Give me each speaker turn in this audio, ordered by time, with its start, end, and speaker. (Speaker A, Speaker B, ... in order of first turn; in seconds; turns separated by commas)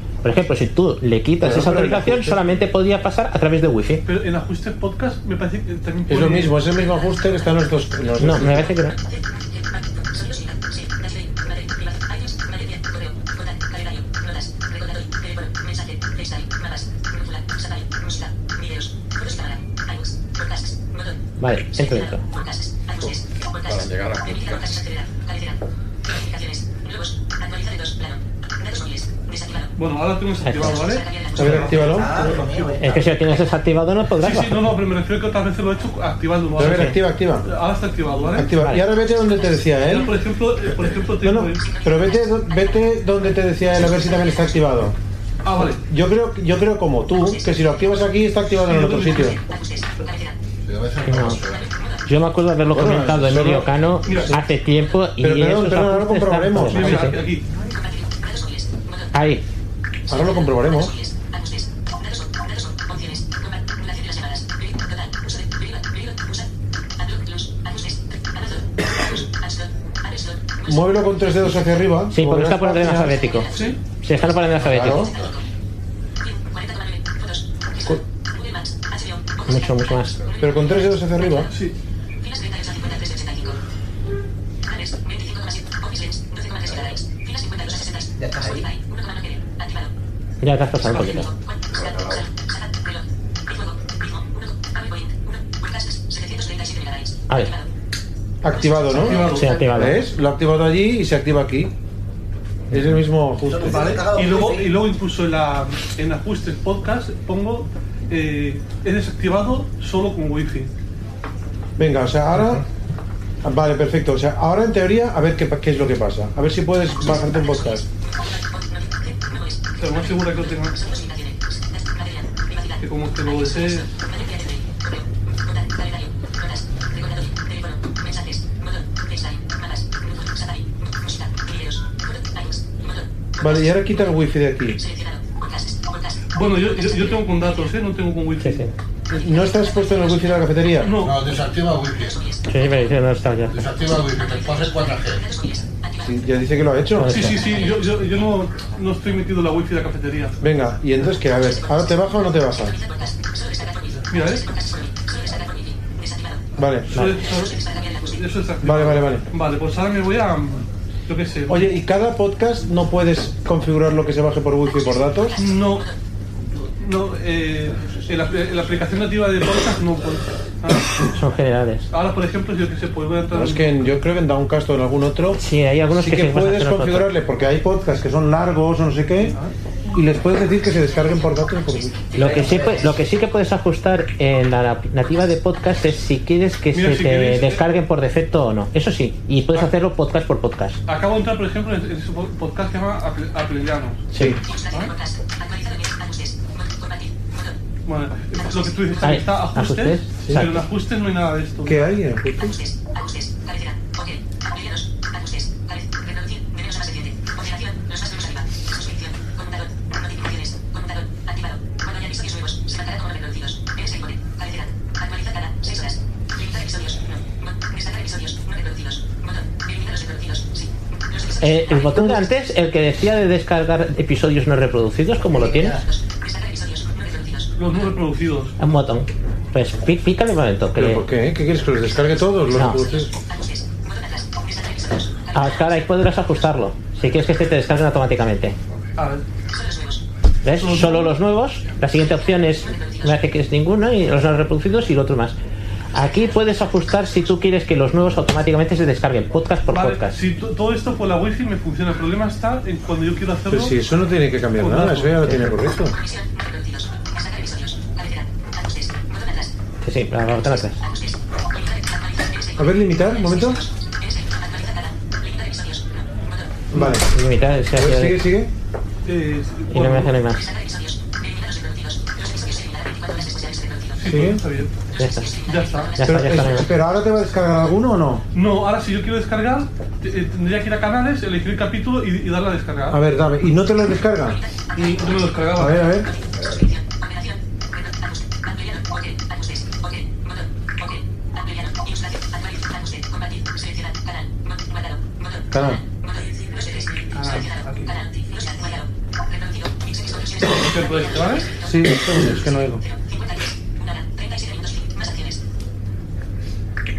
Speaker A: 0.2-4.0, Speaker B: 1.4-2.4, Speaker C: 4.0-6.5, Speaker B: 6.1-8.7, Speaker A: 8.2-8.9, Speaker A: 21.4-22.2, Speaker C: 29.8-31.1, Speaker A: 30.4-30.8, Speaker B: 31.3-32.5, Speaker D: 31.4-33.1, Speaker A: 32.8-34.8, Speaker C: 34.2-38.5, Speaker B: 36.5-37.5, Speaker A: 36.6-37.0, Speaker B: 38.3-40.1, Speaker A: 38.6-38.8, Speaker C: 39.9-41.6, Speaker B: 41.2-45.0, Speaker C: 45.4-45.8, Speaker B: 45.6-49.4, Speaker C: 48.6-49.4, Speaker E: 50.6-51.6, Speaker A: 51.0-51.4, Speaker A: 52.1-57.2, Speaker B: 52.7-53.7, Speaker C: 54.0-54.3, Speaker B: 55.2-57.2, Speaker C: 56.7-57.5, Speaker A: 59.1-59.4, Speaker B: 60.1-60.9, Speaker B: 70.7-73.2, Speaker A: 72.1-75.1, Speaker C: 73.5-73.8, Speaker B: 74.6-75.1, Speaker A: 79.5-80.2, Speaker B: 80.4-81.5, Speaker C: 81.5-81.7, Speaker D: 88.2-88.7, Speaker A: 90.4-91.3, Speaker B: 98.4-101.7, Speaker C: 98.9-99.6, Speaker A: 99.1-100.0, Speaker B: 102.7-104.0, Speaker D: 103.4-104.8, Speaker C: 103.7-110.7, Speaker B: 111.8-112.6, Speaker B: 113.4-117.9, Speaker C: 119.8-120.8, Speaker C: 122.8-123.9, Speaker B: 133.4-134.8, Speaker C: 136.3-138.6, Speaker A: 138.4-138.7, Speaker B: 139.1-140.9, Speaker C: 140.8-141.1, Speaker E: 140.9-142.2, Speaker A: 142.5-143.6, Speaker E: 143.5-145.2, Speaker B: 146.0-147.4, Speaker A: 147.0-147.5, Speaker C: 147.0-150.4, Speaker B: 150.4-152.8, Speaker C: 154.1-154.4, Speaker B: 156.6-157.2, Speaker C: 156.9-161.6, Speaker B: 158.6-159.3, Speaker B: 161.5-165.4, Speaker C: 165.4-165.9, Speaker C: 166.8-171.0, Speaker A: 171.1-171.9, Speaker C: 171.9-173.7, Speaker B: 173.3-179.4, Speaker A: 175.4-177.1, Speaker C: 179.3-179.5, Speaker B: 179.9-182.0, Speaker A: 182.1-190.8, Speaker D: 182.2-182.8, Speaker C: 186.7-187.6, Speaker C: 190.9-194.1, Speaker A: 194.1-194.4, Speaker B: 194.1-194.4, Speaker C: 197.9-201.9, Speaker A: 199.0-200.6, Speaker B: 200.2-200.6, Speaker B: 201.6-202.6, Speaker A: 221.4-225.8, Speaker D: 225.4-225.8, Speaker C: 227.6-228.5, Speaker A: 228.6-231.0, Speaker B: 230.8-233.1, Speaker A: 232.5-232.8, Speaker A: 235.3-238.6, Speaker C: 239.0-239.2, Speaker A: 240.4-245.3, Speaker C: 240.6-241.2, Speaker A: 245.9-250.2, Speaker C: 249.7-253.8, Speaker B: 253.5-255.9, Speaker C: 254.6-255.2, Speaker A: 259.8-260.8, Speaker B: 262.6-263.6, Speaker B: 266.7-267.1, Speaker A: 266.7-268.2, Speaker B: 267.7-268.5, Speaker C: 269.1-270.2, Speaker A: 269.7-270.5, Speaker C: 274.0-274.7, Speaker B: 274.0-274.4, Speaker A: 275.0-275.3, Speaker C: 275.5-275.9, Speaker A: 275.9-276.7, Speaker B: 276.0-278.2, Speaker C: 278.3-283.0, Speaker B: 282.9-284.4, Speaker C: 284.7-285.9, Speaker B: 285.5-286.1, Speaker B: 295.5-295.8, Speaker C: 297.1-297.9, Speaker C: 300.5-301.5, Speaker B: 301.6-302.8